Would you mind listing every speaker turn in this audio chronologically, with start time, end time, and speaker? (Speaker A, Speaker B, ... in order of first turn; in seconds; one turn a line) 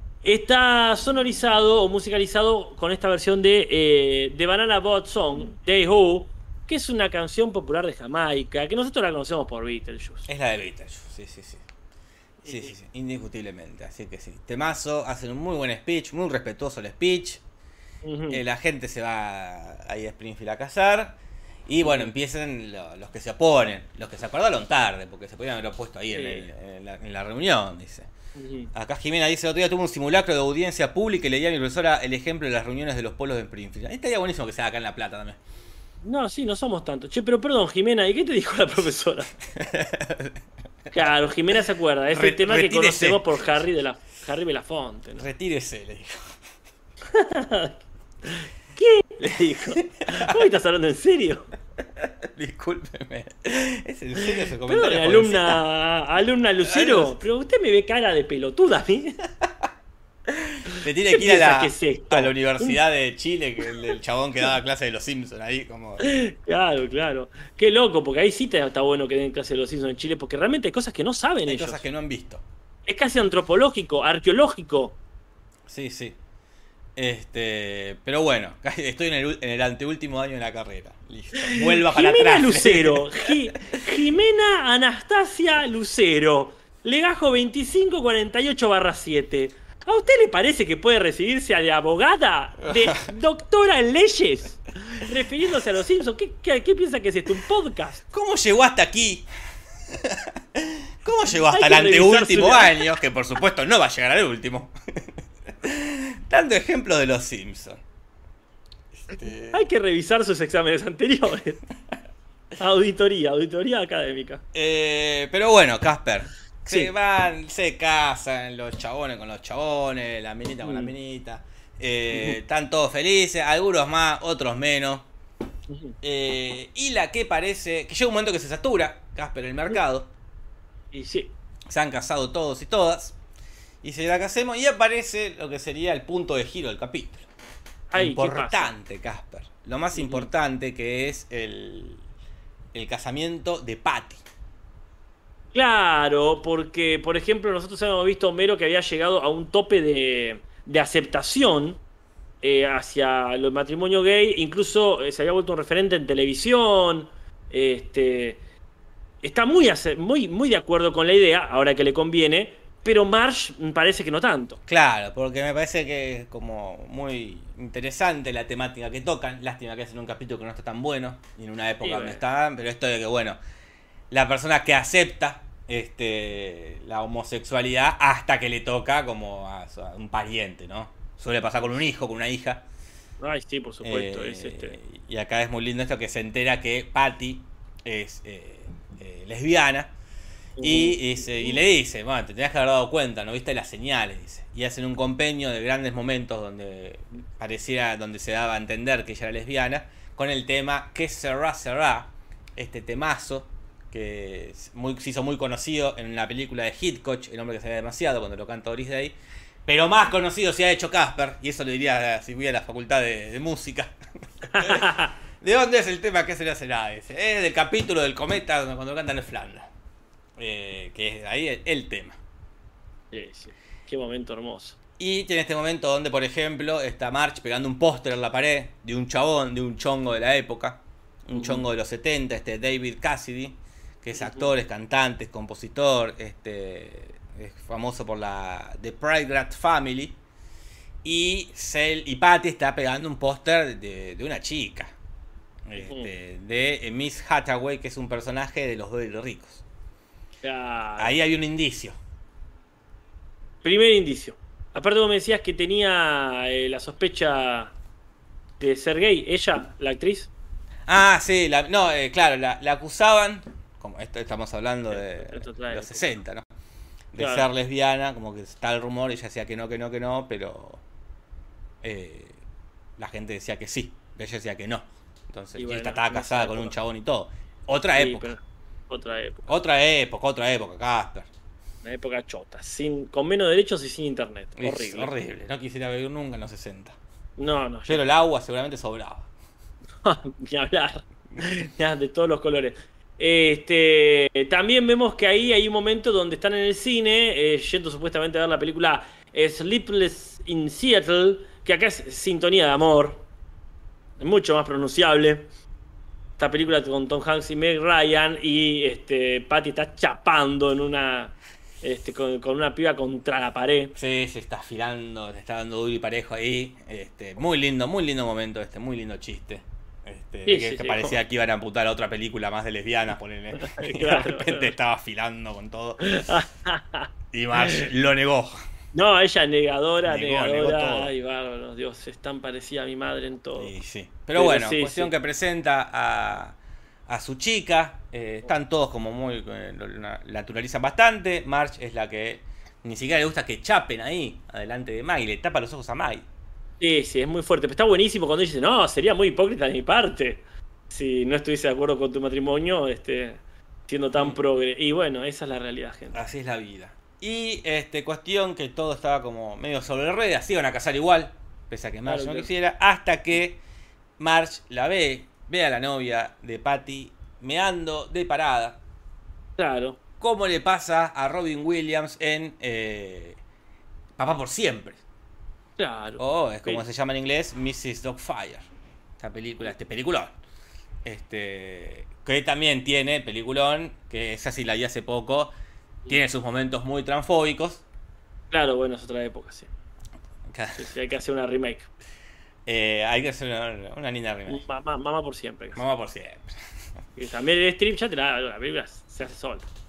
Speaker A: 0.2-10.3
Speaker B: 10.3-11.7
Speaker A: 12.4-12.7
Speaker B: 12.4-17.4
Speaker A: 18.0-18.4
Speaker B: 18.3-28.1
Speaker A: 21.8-22.1
Speaker A: 26.1-26.5
Speaker A: 28.4-28.7
Speaker B: 28.7-35.4
Speaker A: 36.0-39.3
Speaker B: 39.5-40.4
Speaker A: 40.9-45.2
Speaker B: 42.1-43.2
Speaker B: 45.2-46.3
Speaker A: 47.1-51.5
Speaker B: 49.7-50.4
Speaker B: 52.0-55.6
Speaker A: 54.2-59.2
Speaker B: 56.6-57.2
Speaker B: 60.3-66.1
Speaker A: 61.1-62.8
Speaker A: 66.0-71.8
Speaker B: 71.4-72.4
Speaker A: 72.8-75.0
Speaker B: 75.7-76.2
Speaker B: 77.0-83.3
Speaker A: 81.4-98.0
Speaker B: 92.6-93.0
Speaker B: 98.1-99.3
Speaker B: 99.9-107.8
Speaker A: 101.5-102.8
Speaker B: 108.9-109.6
Speaker A: 109.5-111.6
Speaker A: 112.6-114.4
Speaker B: 114.5-125.1
Speaker A: 120.6-120.9
Speaker A: 122.1-122.4
Speaker A: 125.7-125.9
Speaker B: 126.0-130.1
Speaker A: 130.9-131.3
Speaker B: 131.7-133.2
Speaker B: 133.8-137.3
Speaker A: 137.9-138.7
Speaker B: 137.9-142.0
Speaker A: 139.9-140.3
Speaker B: 142.7-144.2
Speaker A: 145.5-151.8
Speaker A: 152.4-158.4
Speaker A: 159.2-164.6
Speaker B: 164.7-173.4
Speaker A: 171.8-172.2
Speaker B: 174.1-182.7
Speaker A: 183.2-184.8
Speaker B: 183.8-189.9
Speaker A: 190.6-191.0
Speaker B: 190.6-219.7
Speaker A: 214.5-215.1
Speaker B: 220.4-222.2
Speaker A: 223.1-224.8
Speaker B: 225.0-240.2
Speaker A: 231.3-231.6
Speaker A: 234.2-234.5
Speaker B: 241.0-244.9
Speaker B: 245.7-249.6
Speaker A: 245.8-246.1
Speaker A: 250.4-251.2
Speaker B: 251.0-252.0
Speaker A: 253.6-257.7
Speaker A: 258.6-260.3
Speaker B: 260.9-266.4
Speaker A: 264.9-266.0
Speaker B: 267.1-270.8
Speaker A: 267.2-267.5
Speaker B: 271.8-272.4
Speaker B: 273.0-278.3
Speaker A: 275.6-276.7
Speaker A: 277.9-279.5
Speaker B: 279.5-281.3
Speaker A: 281.8-285.1
Speaker B: 284.6-287.0
Speaker A: 287.4-288.0
Speaker B: 287.9-289.3
Speaker A: 290.0-303.2
Speaker A: 304.2-305.5
Speaker A: 306.4-313.9
Speaker B: 313.9-326.2
Speaker A: 320.4-321.2
Speaker A: 323.6-324.7
Speaker A: 326.0-327.8
Speaker B: 327.3-328.6
Speaker A: 328.9-333.7
Speaker B: 330.1-331.1
Speaker B: 333.6-346.2
Speaker A: 334.3-335.1
Speaker A: 346.8-356.2
Speaker B: 356.1-363.6
Speaker A: 362.1-362.5
Speaker B: 364.2-368.8
Speaker A: 369.6-370.0
Speaker B: 370.2-373.4
Speaker B: 374.2-375.0
Speaker A: 375.8-376.8
Speaker B: 376.2-378.7
Speaker B: 379.2-380.4
Speaker B: 381.0-385.5
Speaker B: 386.1-387.8
Speaker A: 388.5-389.7
Speaker B: 390.5-390.9
Speaker A: 390.8-391.9
Speaker B: 392.6-394.6
Speaker A: 394.5-395.8
Speaker B: 395.7-396.5
Speaker A: 397.2-399.6